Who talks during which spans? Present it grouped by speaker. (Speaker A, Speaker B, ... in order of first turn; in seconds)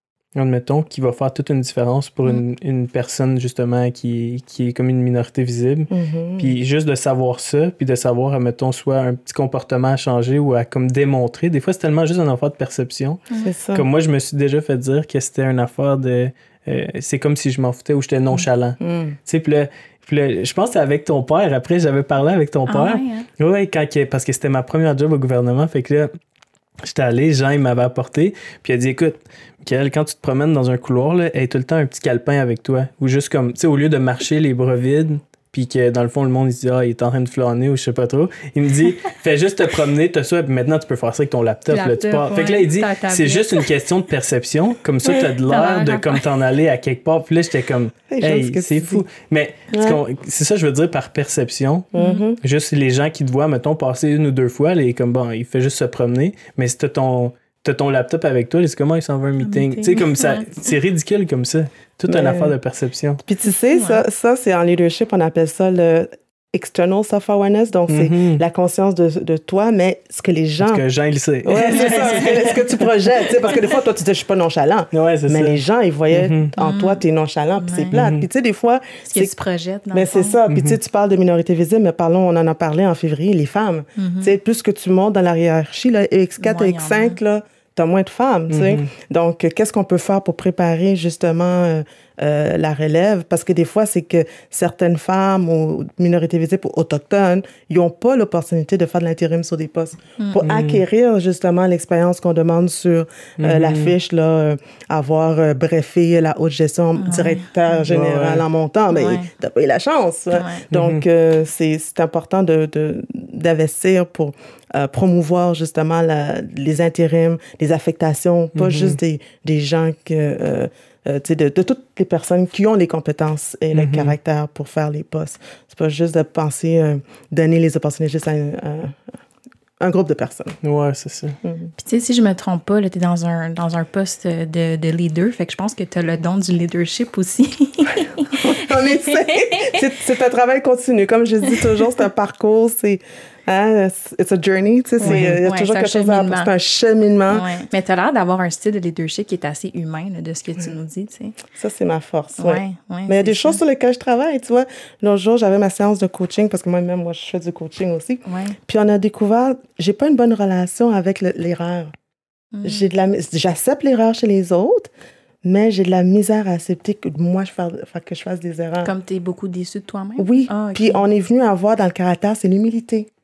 Speaker A: 0.3-13.2, 13.7-26.1, 26.8-63.2, 67.9-68.4, 70.6-72.8, 74.9-75.6, 76.1-76.5, 77.9-78.2, 80.5-80.8, 88.5-88.9, 100.4-100.8, 103.4-103.9, 107.8-108.4, 110.7-111.0, 118.5-119.0, 123.7-124.1, 130.6-131.4, 145.0-145.4
Speaker B: 5.9-6.5, 13.4-13.9, 18.8-19.2, 48.1-49.0, 49.7-50.0, 51.9-52.4, 62.1-62.5, 63.2-70.8, 71.4-79.3, 79.9-129.0, 129.8-130.6, 131.4-131.7, 138.3-147.5, 151.6-161.9, 162.6-164.9, 165.4-168.9, 170.2-173.1
Speaker C: 22.7-23.3, 41.7-43.7, 45.4-46.2, 52.0-52.2, 59.4-60.6, 63.7-64.0, 71.7-72.3, 76.6-77.0, 77.6-77.9, 79.1-80.4, 84.0-84.3, 86.4-87.2, 100.2-100.4, 107.0-107.8, 108.9-109.3, 110.3-110.6, 131.8-139.8, 145.0-146.5, 147.3-151.4, 152.4-153.6, 158.2-158.6, 162.5-162.9, 168.8-171.0